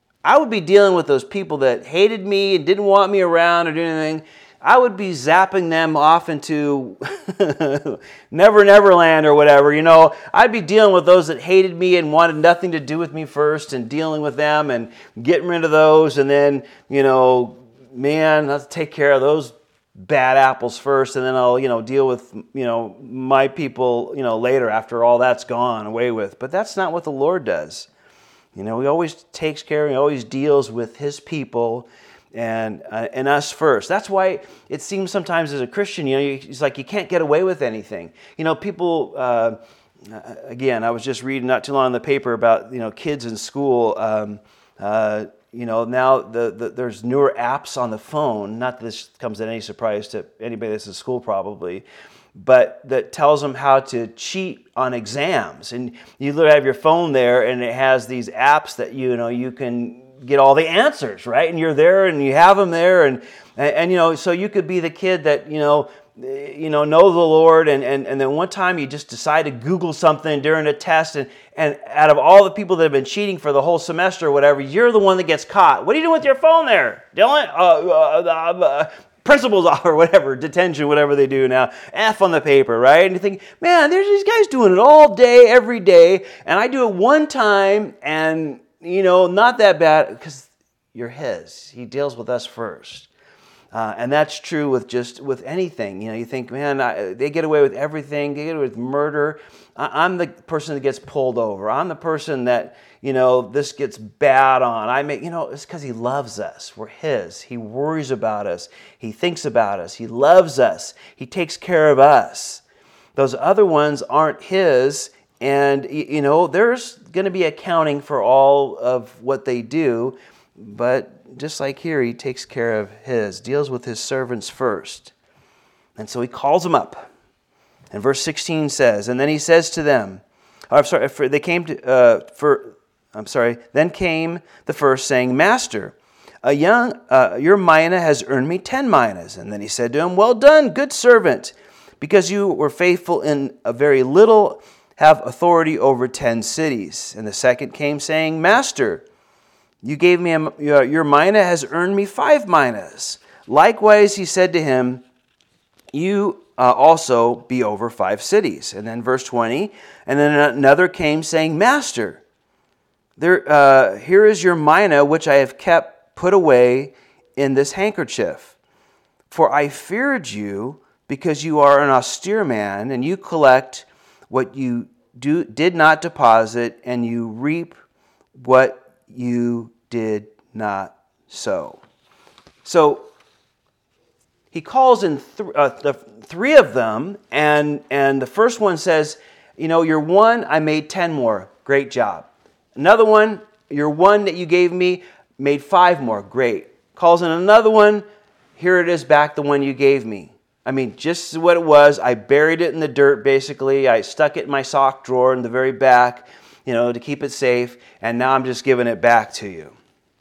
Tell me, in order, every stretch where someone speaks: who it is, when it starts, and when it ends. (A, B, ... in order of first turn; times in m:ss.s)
0:00.2-0:27.9 A
0:28.5-0:51.8 A
0:52.4-1:33.1 A
1:33.7-1:52.6 A
1:53.2-2:05.1 A
2:06.0-2:07.1 A
2:07.9-2:29.0 A
2:29.8-2:35.0 A
2:35.9-2:42.2 A
2:43.2-2:48.5 A
2:49.3-2:57.7 A
2:58.4-3:01.8 A
3:02.6-3:03.0 A
3:04.5-3:18.0 A
3:18.6-3:29.7 A